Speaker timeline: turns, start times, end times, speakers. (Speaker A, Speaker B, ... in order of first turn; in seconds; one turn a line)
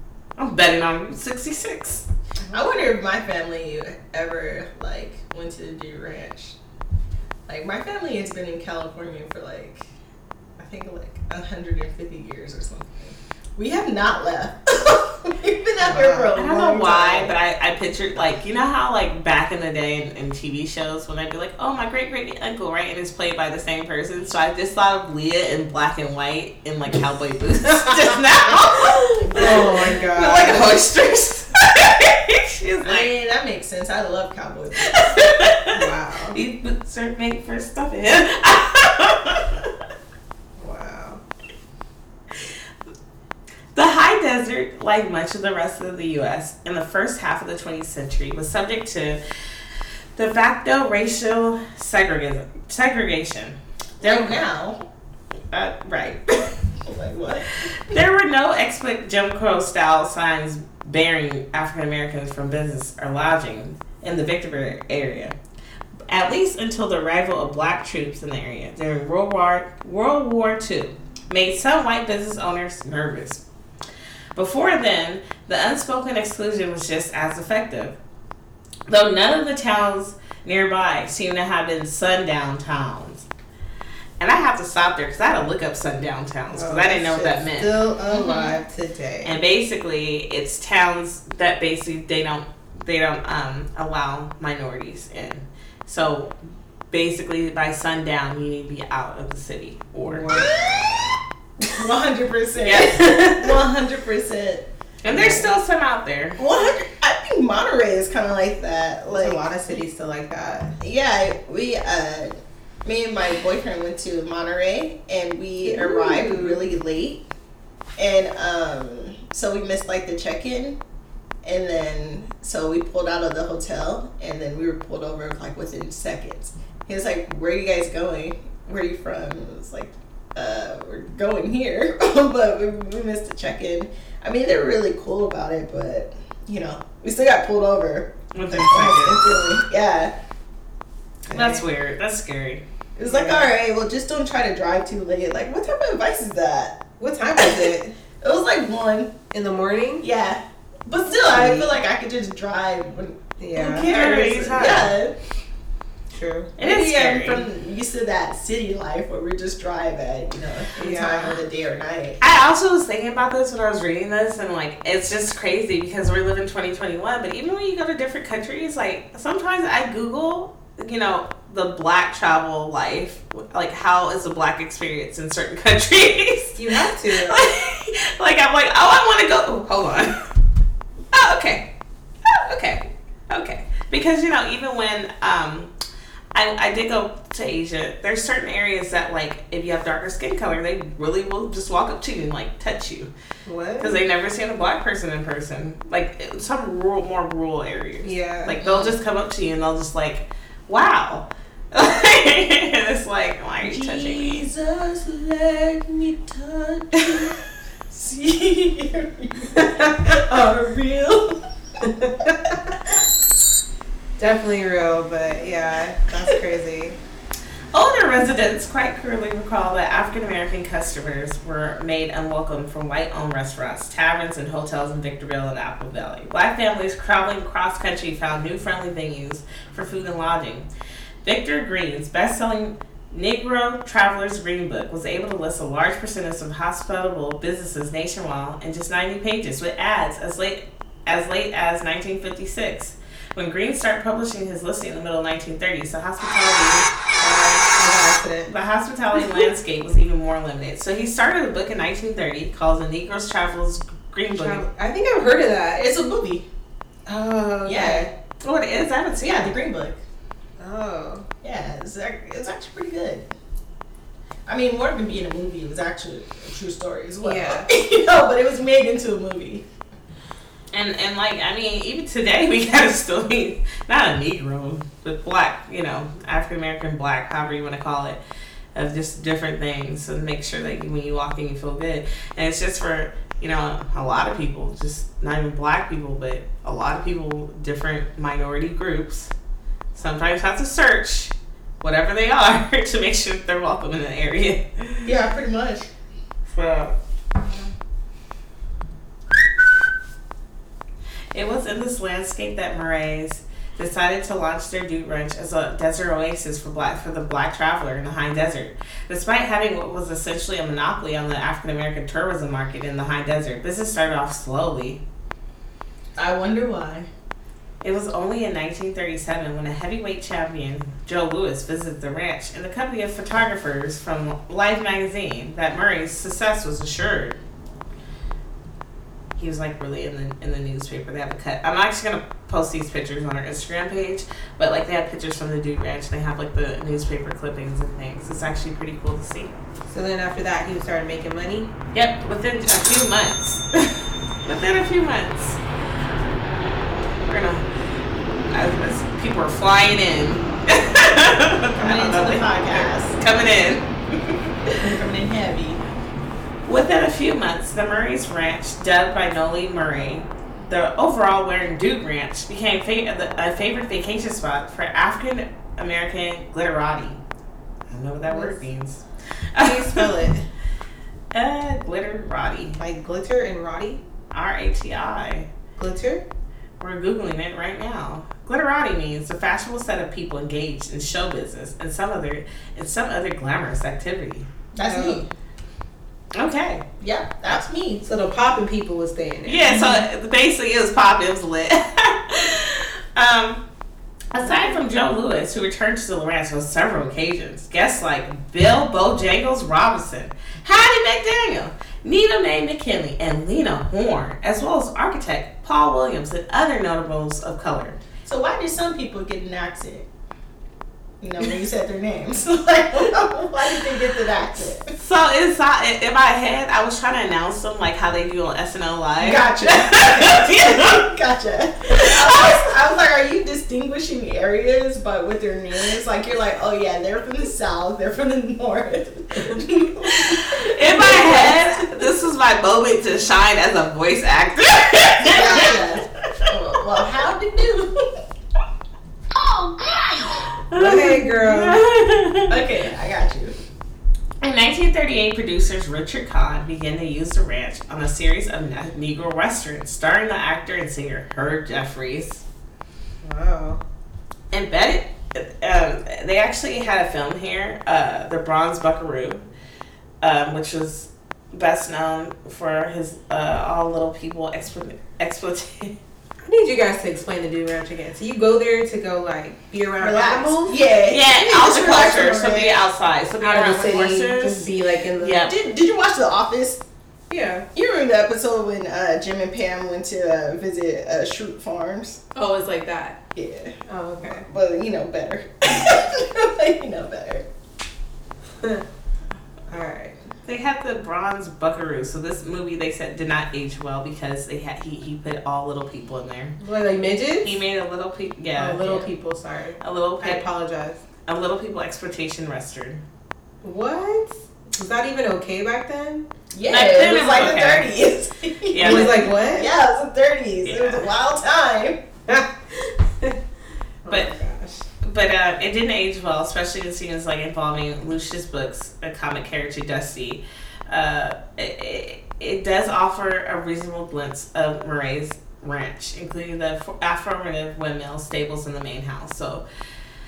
Speaker A: 0.4-2.0
Speaker B: 2.5-6.5
Speaker B: 7.5-9.8
Speaker B: 10.6-17.3
Speaker C: 15.8-16.3
Speaker A: 16.4-33.1
Speaker B: 29.2-29.9
Speaker C: 29.3-30.7
Speaker B: 32.8-35.2
Speaker A: 34.9-35.8
Speaker C: 35.7-36.4
Speaker A: 36.3-39.7
Speaker C: 40.6-41.2
Speaker A: 43.7-49.2
Speaker A: 50.1-54.4
Speaker B: 54.0-54.8
Speaker A: 55.5-56.5
Speaker B: 56.9-57.7
Speaker A: 57.8-65.3
Speaker A: 66.1-73.4
Speaker A: 74.3-78.0
Speaker A: 78.9-83.2
Speaker A: 84.2-87.7
Speaker C: 86.5-89.3
Speaker B: 88.1-88.5
Speaker A: 89.2-96.3
Speaker A: 96.9-100.5
Speaker C: 100.0-100.5
Speaker B: 100.5-101.0
Speaker B: 101.7-105.5
Speaker A: 102.7-103.0
Speaker C: 102.7-103.6
Speaker A: 105.0-106.4
Speaker B: 106.4-109.4
Speaker C: 109.1-110.7
Speaker B: 110.8-117.2
Speaker C: 115.6-116.6
Speaker B: 118.0-120.8
Speaker B: 121.4-140.1
Speaker A: 138.3-139.4
Speaker C: 141.3-141.6
Speaker A: 141.3-142.6
Speaker B: 142.9-146.8
Speaker C: 143.0-143.5
Speaker C: 147.0-147.9
Speaker B: 147.4-147.7
Speaker B: 148.2-149.2
Speaker C: 149.3-150.0
Speaker B: 150.0-155.1
Speaker C: 151.1-151.7
Speaker C: 153.4-153.9
Speaker A: 153.8-154.9
Speaker C: 156.1-156.5
Speaker A: 156.6-157.5
Speaker B: 156.6-162.2
Speaker C: 160.8-161.4
Speaker A: 162.2-180.2
Speaker C: 176.6-177.4
Speaker A: 181.1-181.7
Speaker A: 182.3-185.7
Speaker A: 186.3-193.1
Speaker C: 193.4-194.0
Speaker A: 193.8-204.4
Speaker C: 198.0-198.6
Speaker B: 198.6-199.0
Speaker B: 203.6-211.4
Speaker C: 209.5-210.2
Speaker C: 211.8-212.6
Speaker C: 214.2-217.0
Speaker A: 217.7-230.7
Speaker A: 231.2-246.9
Speaker C: 247.2-248.5
Speaker A: 248.5-254.6
Speaker C: 254.3-255.8
Speaker B: 255.7-256.4
Speaker C: 257.1-258.1
Speaker B: 257.6-258.1
Speaker A: 258.4-259.5
Speaker B: 259.2-260.0
Speaker C: 260.6-261.2
Speaker B: 261.4-263.3
Speaker B: 264.4-269.6
Speaker C: 267.2-267.7
Speaker A: 270.7-278.2
Speaker A: 278.7-289.3
Speaker A: 289.9-295.1
Speaker B: 295.0-295.9
Speaker A: 296.5-296.9
Speaker A: 301.3-315.0
Speaker B: 316.2-317.1
Speaker A: 317.8-327.4
Speaker A: 329.4-339.5
Speaker C: 339.9-341.7
Speaker A: 341.9-345.6
Speaker A: 347.2-347.6
Speaker A: 348.5-354.8
Speaker B: 351.8-353.1
Speaker B: 354.8-355.8
Speaker A: 356.6-367.2
Speaker A: 367.9-369.0
Speaker C: 368.3-368.6
Speaker A: 369.5-370.1
Speaker C: 369.6-370.5
Speaker A: 371.3-372.8
Speaker C: 372.8-374.0
Speaker A: 374.3-375.5
Speaker C: 375.8-376.2
Speaker A: 376.8-384.5
Speaker B: 384.7-385.3
Speaker C: 384.8-385.2
Speaker A: 386.3-386.8
Speaker B: 387.0-388.1
Speaker C: 388.0-389.9
Speaker A: 389.4-393.6
Speaker B: 389.7-390.0
Speaker A: 394.3-408.0
Speaker B: 394.4-394.7
Speaker B: 408.2-410.1
Speaker B: 411.2-414.9
Speaker A: 414.9-421.1
Speaker B: 419.2-431.9
Speaker A: 421.9-422.6
Speaker A: 430.0-435.8
Speaker B: 435.2-438.1
Speaker A: 439.9-442.6
Speaker C: 440.7-441.8
Speaker B: 442.5-443.5
Speaker A: 444.4-452.4
Speaker C: 453.2-453.8
Speaker A: 454.5-459.4
Speaker A: 460.2-465.9
Speaker C: 466.4-470.8
Speaker B: 470.0-472.8
Speaker A: 471.1-475.5
Speaker C: 473.4-475.5
Speaker B: 475.4-476.8
Speaker C: 477.3-477.7
Speaker B: 477.7-482.2
Speaker C: 482.3-483.2
Speaker B: 483.3-483.8
Speaker C: 483.9-484.4
Speaker B: 484.3-487.4
Speaker C: 488.6-488.8
Speaker C: 489.7-490.1
Speaker A: 490.4-496.6
Speaker C: 496.6-497.6
Speaker A: 497.4-499.1
Speaker C: 498.6-501.0
Speaker A: 499.8-500.4
Speaker A: 501.2-503.0
Speaker C: 503.6-506.3
Speaker B: 506.5-512.0
Speaker A: 506.7-507.9
Speaker A: 508.7-509.3
Speaker C: 508.8-509.7
Speaker A: 510.6-511.0
Speaker C: 512.3-513.4
Speaker C: 514.0-514.9
Speaker A: 515.0-529.6